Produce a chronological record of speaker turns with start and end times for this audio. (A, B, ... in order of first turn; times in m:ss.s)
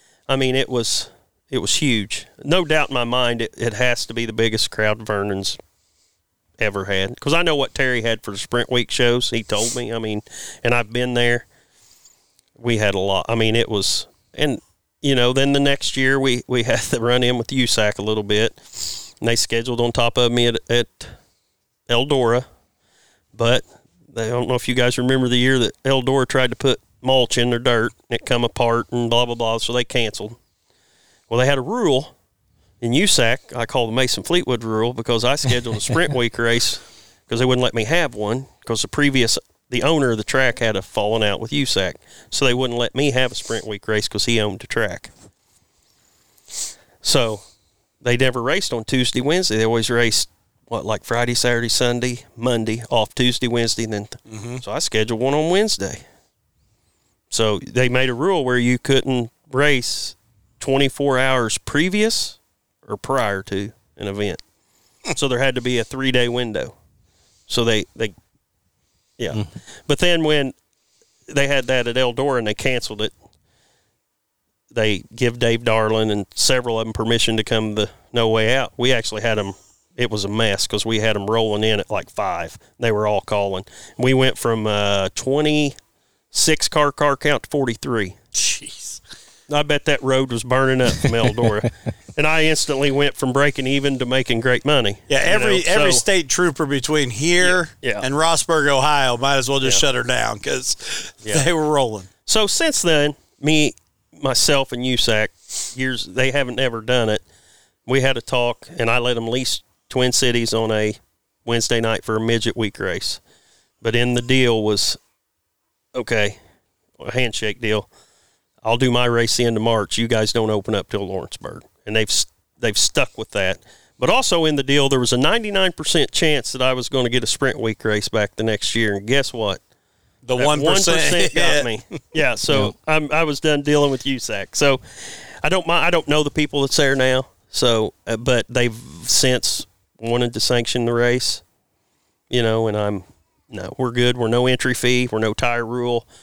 0:00.3-0:05.6 A
0:06.6-0:11.4 A
0:12.6-0:21.1 A
0:21.9-0:22.4 A
0:23.3-0:30.4 A
0:31.3-0:32.1 A
0:32.8-0:45.1 A
0:47.0-0:47.4 A
0:48.0-0:56.0 A
0:54.3-0:54.6 B
0:57.3-1:04.4 A
1:05.1-1:06.7 A
1:07.5-1:08.1 A
1:09.2-1:10.6 A
1:11.3-1:13.1 A
1:14.7-1:25.7 A
1:26.3-1:28.2 A
1:28.4-1:29.0 B
1:29.5-1:36.0 A
1:35.1-1:42.1 B
1:37.4-1:38.0 A
1:42.2-1:47.2 A
1:47.9-1:53.2 A
1:53.8-1:55.0 A
1:55.9-1:56.4 A
1:57.0-1:57.9 A
1:58.6-2:09.6 A
2:10.2-2:11.7 B
2:10.4-2:21.4 A
2:22.3-2:26.0 A